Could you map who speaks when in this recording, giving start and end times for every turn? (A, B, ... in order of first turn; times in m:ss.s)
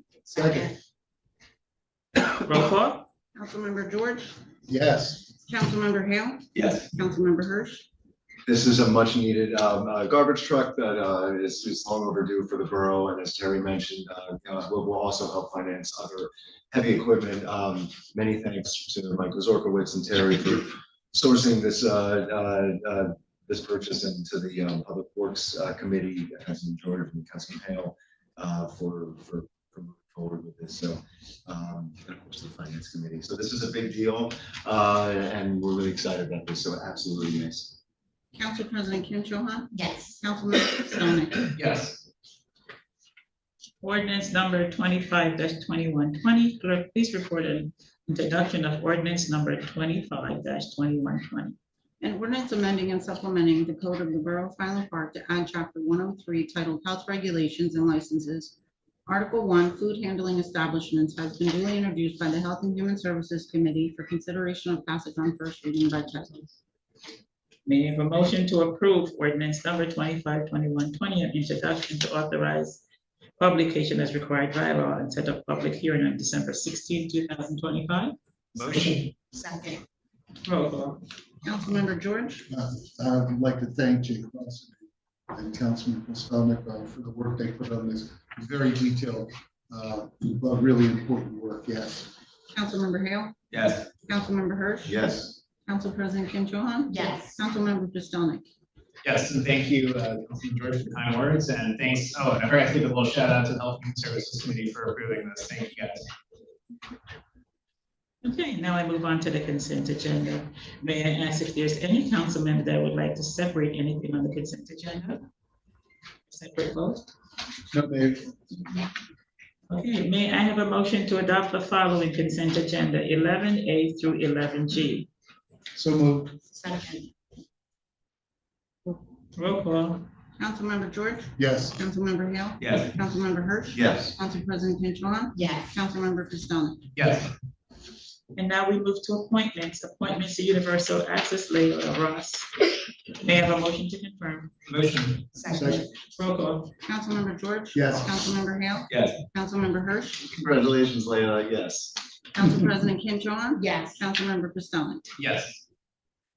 0:00.3-0:00.7 A
0:00.3-0:00.7 B
0:02.2-0:03.1 C
0:03.3-0:04.3 D
0:04.7-0:05.3 A
0:05.4-0:07.8 D
0:06.5-0:06.9 E
0:08.4-0:37.7 F
0:38.3-0:41.5 D
0:39.7-0:40.2 B
0:41.5-0:42.0 E
0:43.8-0:51.6 C
0:52.0-0:58.5 D
0:59.1-1:06.5 D
1:07.6-1:12.8 C
1:13.4-1:18.1 C
1:18.6-1:19.1 E
1:19.3-1:19.8 B
1:20.4-1:21.0 C
1:21.4-1:22.4 D
1:22.5-1:24.7 A
1:25.3-1:32.1 A
1:32.5-1:33.3 D
1:33.5-1:33.8 E
1:34.0-1:38.4 D
1:34.8-1:35.3 F
1:36.9-1:37.4 B
1:39.0-1:46.0 E
1:48.2-1:55.2 C
1:56.3-1:57.1 C
1:57.7-1:58.3 A
1:59.7-2:05.1 C
2:05.7-2:06.3 A
2:06.5-2:07.1 B
2:09.3-2:10.0 C
2:10.4-2:16.8 D
2:11.4-2:11.8 A
2:12.6-2:12.9 E
2:13.7-2:14.2 F
2:15.3-2:15.7 B
2:16.9-2:17.3 E
2:18.3-2:22.5 C
2:23.2-2:24.5 C
2:24.7-2:25.2 E
2:25.3-2:25.9 B
2:25.5-2:25.8 A
2:26.1-2:26.7 C
2:26.8-2:30.3 D
2:27.7-2:28.1 A
2:28.9-2:29.2 E
2:30.4-2:31.9 F
2:32.3-2:35.1 D
2:33.5-2:34.0 B
2:35.2-2:35.6 E